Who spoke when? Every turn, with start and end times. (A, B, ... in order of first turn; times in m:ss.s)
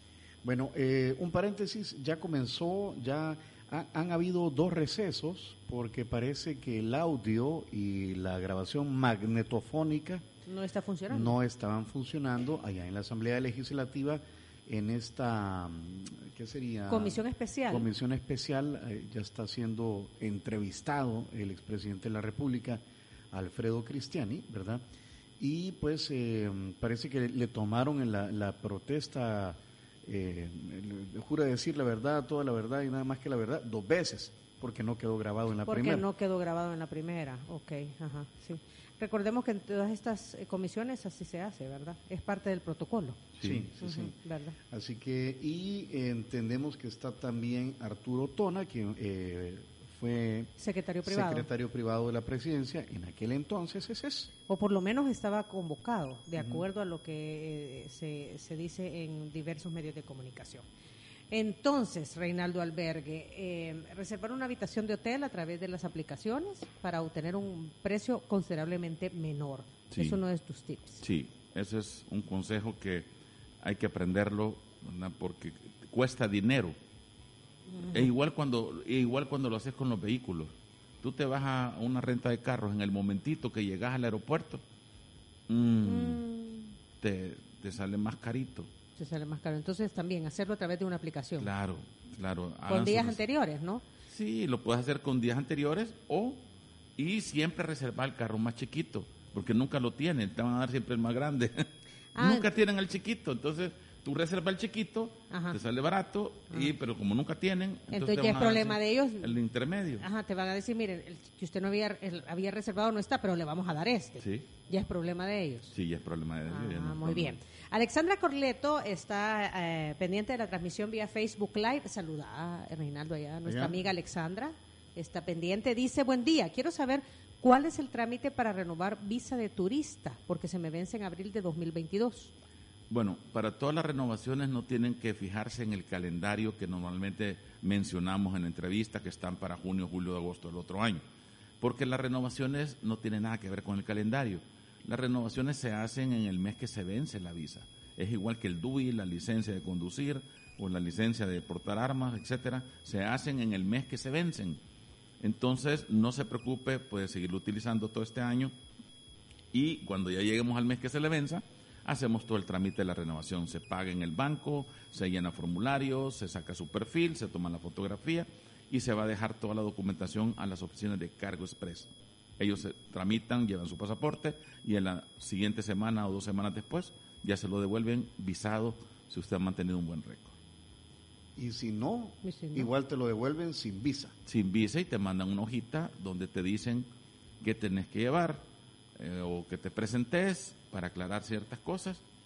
0:00.4-0:10.2 A
0:10.4-0:11.4 B
0:11.1-0:24.8 A
0:16.9-0:17.9 B
0:25.4-0:36.1 A
0:35.6-0:43.2 B
0:43.4-0:43.7 C
0:43.4-0:44.2 A
0:43.8-0:44.6 B
0:44.7-0:50.5 A
0:50.6-0:51.5 B
0:51.0-0:54.3 A
0:54.5-1:00.6 B
0:56.4-0:56.6 A
1:01.3-1:11.0 B
1:09.9-1:10.2 C
1:11.0-1:13.1 C
1:13.6-1:16.8 C
1:17.7-1:18.1 B
1:17.8-1:24.6 C
1:25.5-1:26.2 C
1:25.8-1:26.7 B
1:27.0-1:28.7 C
1:29.0-1:31.5 B
1:31.4-1:33.2 C
1:32.7-1:33.8 B
1:34.1-1:36.4 C
1:37.0-1:50.0 C
1:42.1-1:42.6 B
1:45.3-1:45.6 B
1:47.9-1:49.4 B
1:50.0-1:55.7 B
1:54.2-1:54.5 C
1:55.7-1:57.4 C
1:56.5-2:12.3 B
2:03.4-2:03.8 A
2:12.9-2:21.0 C
2:21.6-2:34.6 C
2:35.2-2:38.5 C
2:39.5-3:00.4 C
3:01.4-3:04.1 A
3:02.2-3:02.7 B
3:04.2-3:06.9 C
3:07.4-3:08.4 C
3:09.0-3:12.0 C